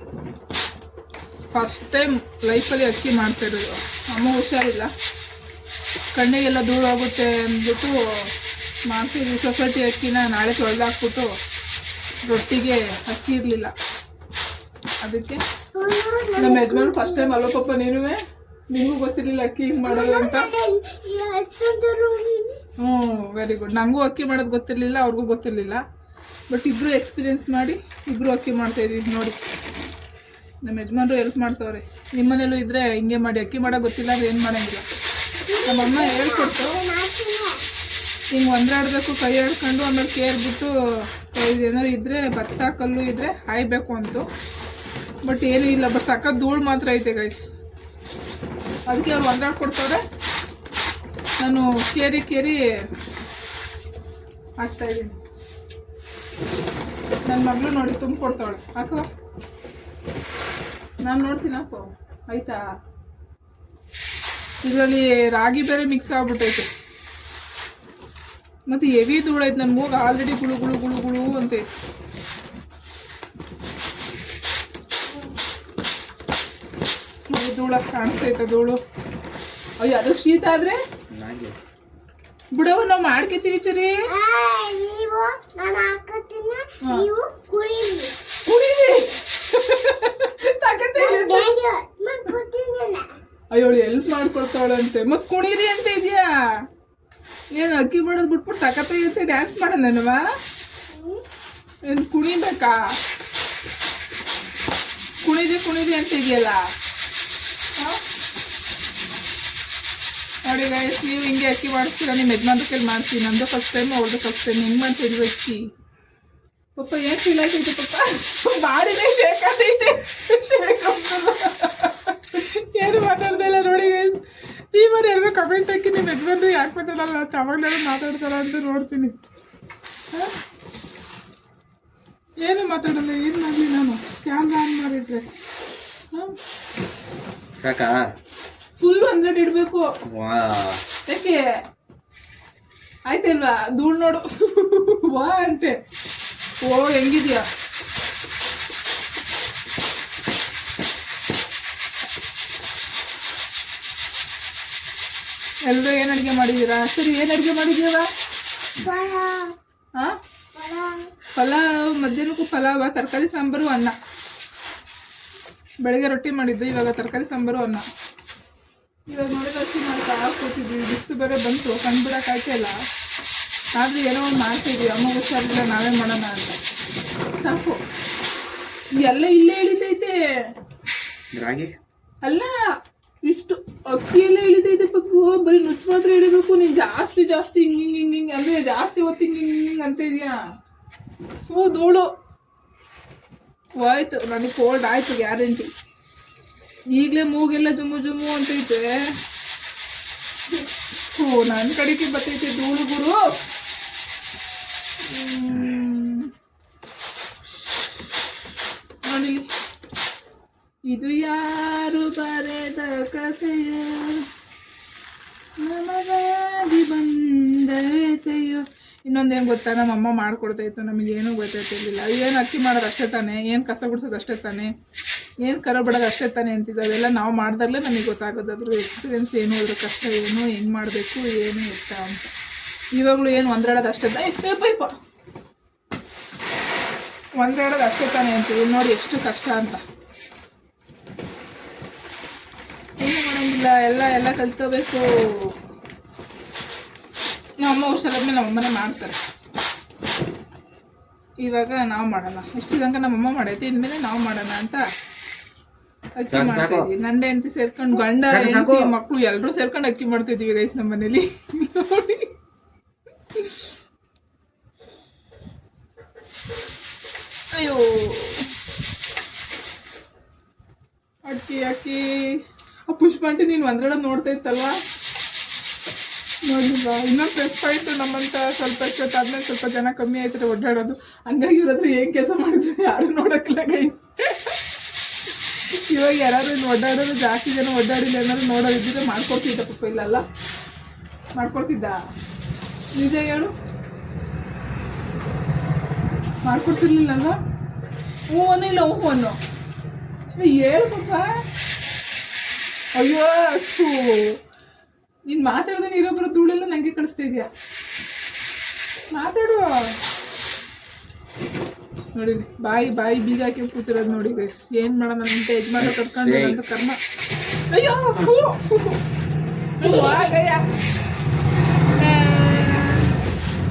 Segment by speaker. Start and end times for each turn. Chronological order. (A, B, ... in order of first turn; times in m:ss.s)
0:01.5-0:04.9 A
0:06.2-0:08.0 A
0:08.9-0:11.3 A
0:12.2-0:13.7 A
0:15.0-0:15.4 A
0:15.7-0:17.4 B
0:16.4-0:18.2 A
0:18.7-0:20.5 A
0:19.8-0:22.6 B
0:22.8-0:25.8 A
0:26.5-0:29.4 A
0:30.6-0:34.9 A
0:35.4-0:37.6 B
0:35.6-0:36.8 A
0:38.3-0:40.7 A
0:41.3-0:44.3 A
0:45.2-0:47.5 A
0:48.9-0:50.0 A
0:51.4-0:52.6 A
0:54.6-0:55.2 A
0:57.3-0:59.0 A
1:01.0-1:02.6 A
1:04.6-1:06.7 A
1:08.7-1:11.6 A
1:17.3-1:18.8 A
1:19.8-1:20.8 A
1:21.1-1:21.6 C
1:22.5-1:24.0 A
1:24.1-1:28.1 B
1:28.5-1:31.5 A
1:31.0-1:33.1 B
1:33.5-1:36.6 A
1:37.5-1:40.3 A
1:40.9-1:41.2 B
1:41.9-1:42.9 A
1:45.2-1:46.6 A
1:50.5-1:55.6 A
1:56.8-2:04.2 A
2:04.7-2:09.1 A
2:12.4-2:15.2 A
2:17.6-2:18.1 C
2:18.8-2:19.9 A
2:20.1-2:20.8 C
2:21.1-2:21.4 A
2:23.1-2:25.8 A
2:26.6-2:27.5 A
2:35.7-2:38.1 A
2:38.8-2:39.5 B
2:40.5-2:41.1 B
2:41.4-2:44.0 A
2:45.8-2:47.8 A
2:49.1-2:52.8 A
2:53.8-2:56.6 A
2:57.4-2:57.8 A
2:59.0-3:00.5 A
3:01.3-3:01.7 C
3:02.2-3:10.4 A
3:11.5-3:12.1 A
3:13.8-3:15.7 A
3:16.9-3:19.2 A
3:21.2-3:23.3 A
3:25.0-3:26.3 A
3:29.0-3:29.5 A
3:30.9-3:34.2 A
3:35.6-3:44.7 A
3:45.4-3:52.2 A
3:52.9-3:54.9 A
3:57.4-3:59.8 A
4:03.0-4:05.5 A
4:07.6-4:09.2 A
4:11.4-4:14.9 A
4:16.2-4:22.3 A
4:16.3-4:16.8 C
4:18.3-4:18.9 C
4:23.3-4:23.7 A
4:27.5-4:28.5 A
4:31.2-4:32.0 A
4:32.9-4:34.8 A
4:36.4-4:44.6 A
4:45.3-4:50.2 A
4:51.4-4:52.0 A
4:53.0-4:53.5 A
4:56.4-4:57.4 A
4:58.3-4:59.4 A
5:00.4-5:01.3 A
5:03.0-5:04.4 A
5:05.3-5:07.5 A
5:09.1-5:09.7 A
5:12.1-5:17.0 A
5:15.8-5:16.6 C
5:17.7-5:19.0 A
5:19.8-5:20.6 A
5:19.8-5:20.3 B
5:22.0-5:23.1 A